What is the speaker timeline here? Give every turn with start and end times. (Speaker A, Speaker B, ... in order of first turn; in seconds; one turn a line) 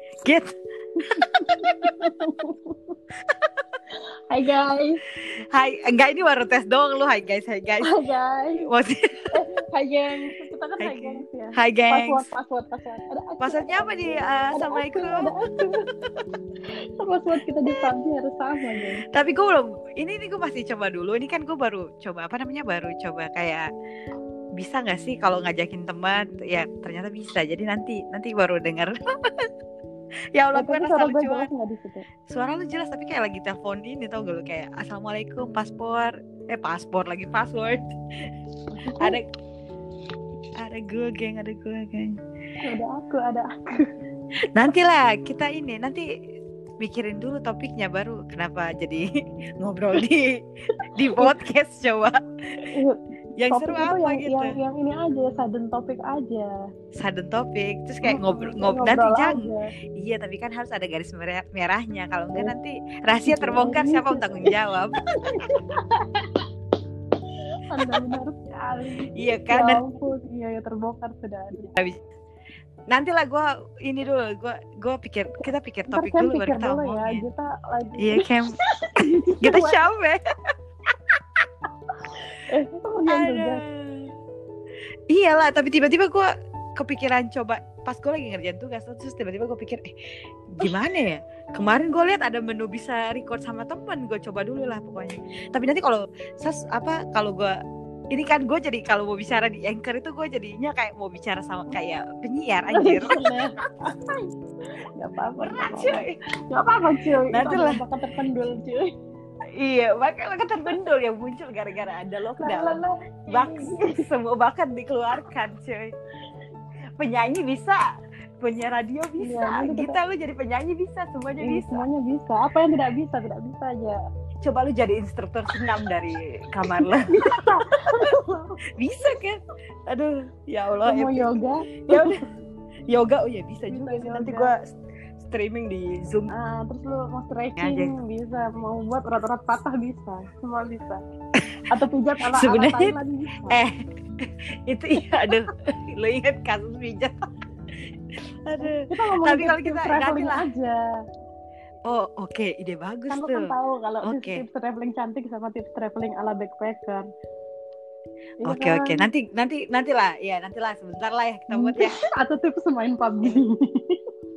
Speaker A: 1.0-2.9
Speaker B: 1.1-1.9
Speaker A: 4.3-5.0
Speaker B: 5.5-7.9
Speaker A: 7.8-8.7
Speaker B: 8.6-9.0
Speaker A: 9.3-15.9
Speaker B: 10.8-12.2
Speaker B: 13.4-15.3
Speaker A: 17.0-19.0
Speaker B: 19.1-23.7
Speaker B: 24.6-29.5
Speaker B: 30.4-31.5
Speaker A: 30.5-32.0
Speaker B: 32.3-37.8
Speaker A: 38.8-39.2
Speaker B: 39.0-39.2
Speaker B: 40.6-42.1
Speaker A: 42.6-43.9
Speaker B: 44.5-46.0
Speaker B: 46.8-49.1
Speaker B: 49.6-50.4
Speaker B: 50.9-52.6
Speaker B: 53.4-54.6
Speaker A: 53.5-56.5
Speaker B: 57.0-59.5
Speaker A: 58.0-59.7
Speaker B: 60.0-64.9
Speaker A: 63.3-64.5
Speaker A: 65.2-66.4
Speaker A: 67.7-71.7
Speaker B: 69.2-69.8
Speaker B: 72.9-77.2
Speaker A: 75.9-78.3
Speaker B: 78.0-78.5
Speaker A: 78.8-79.8
Speaker B: 79.4-80.2
Speaker A: 82.5-83.6
Speaker B: 83.1-84.1
Speaker B: 85.1-89.9
Speaker B: 90.5-97.6
Speaker B: 98.1-103.5
Speaker A: 102.7-104.3
Speaker A: 105.0-108.9
Speaker B: 105.4-106.2
Speaker B: 107.3-107.8
Speaker B: 109.6-115.9
Speaker A: 112.4-114.0
Speaker B: 117.0-117.8
Speaker B: 118.4-121.8
Speaker A: 119.2-120.0
Speaker A: 121.4-124.0
Speaker B: 124.4-128.1
Speaker A: 126.8-128.6
Speaker B: 128.8-132.2
Speaker A: 130.8-132.2
Speaker B: 132.9-136.3
Speaker A: 133.7-134.5
Speaker A: 136.3-141.0
Speaker B: 137.6-137.9
Speaker A: 141.7-143.6
Speaker B: 142.3-142.9
Speaker B: 143.5-147.2
Speaker A: 145.0-145.4
Speaker B: 148.5-150.5
Speaker A: 148.6-150.8
Speaker B: 151.9-153.5
Speaker A: 153.1-157.1
Speaker B: 154.0-154.4
Speaker A: 158.4-159.1
Speaker B: 158.4-161.9
Speaker A: 161.5-164.0